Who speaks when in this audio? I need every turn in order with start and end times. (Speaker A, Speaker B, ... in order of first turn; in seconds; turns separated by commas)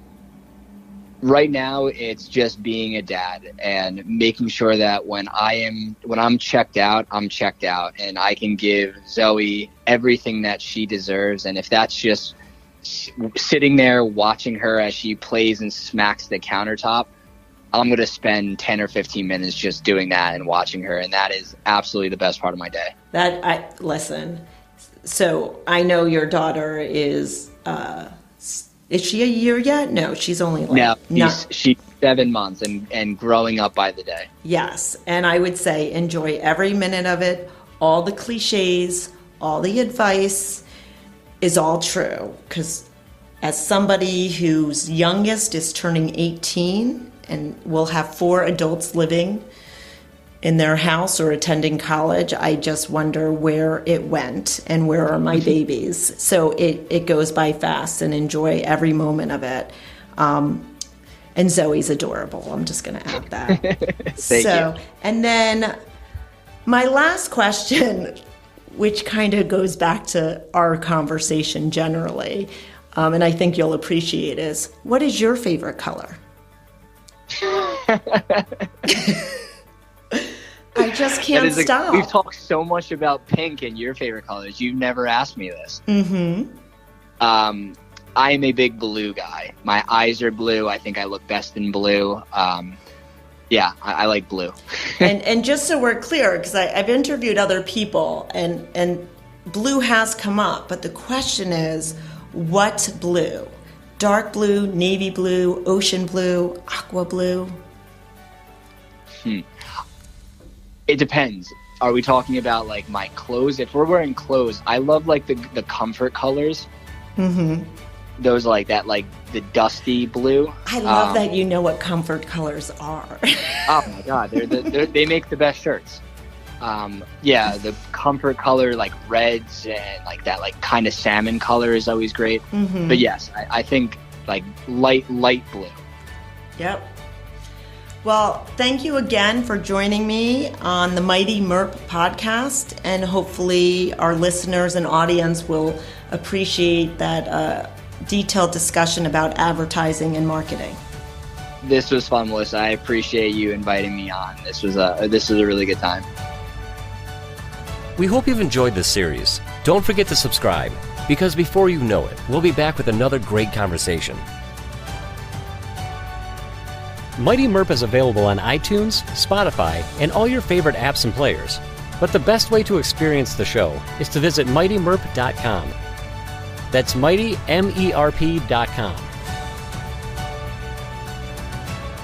Speaker A: 1.2-17.1, Speaker A: 17.7-22.9, Speaker B: 23.1-24.4, Speaker B: 25.1-31.4, Speaker A: 30.7-34.3, Speaker B: 34.4-40.6, Speaker B: 41.4-42.9, Speaker B: 43.4-49.5, Speaker B: 50.4-60.7, Speaker B: 61.4-63.7, Speaker A: 63.7-64.7, Speaker B: 64.2-65.8, Speaker B: 66.7-68.2, Speaker B: 68.7-76.2, Speaker A: 77.4-78.7, Speaker B: 78.9-79.2, Speaker B: 80.8-82.1, Speaker A: 80.8-85.8, Speaker B: 85.9-86.5, Speaker A: 87.2-92.8, Speaker A: 93.5-95.1, Speaker B: 95.0-107.6, Speaker A: 110.9-116.7, Speaker B: 117.2-117.7, Speaker A: 118.2-121.3, Speaker B: 120.7-123.7, Speaker A: 123.7-126.0, Speaker A: 126.6-135.8, Speaker B: 132.5-133.1, Speaker B: 136.6-136.9, Speaker B: 138.0-150.8, Speaker A: 151.6-156.1, Speaker C: 158.0-164.2, Speaker C: 167.2-175.8, Speaker C: 176.7-179.1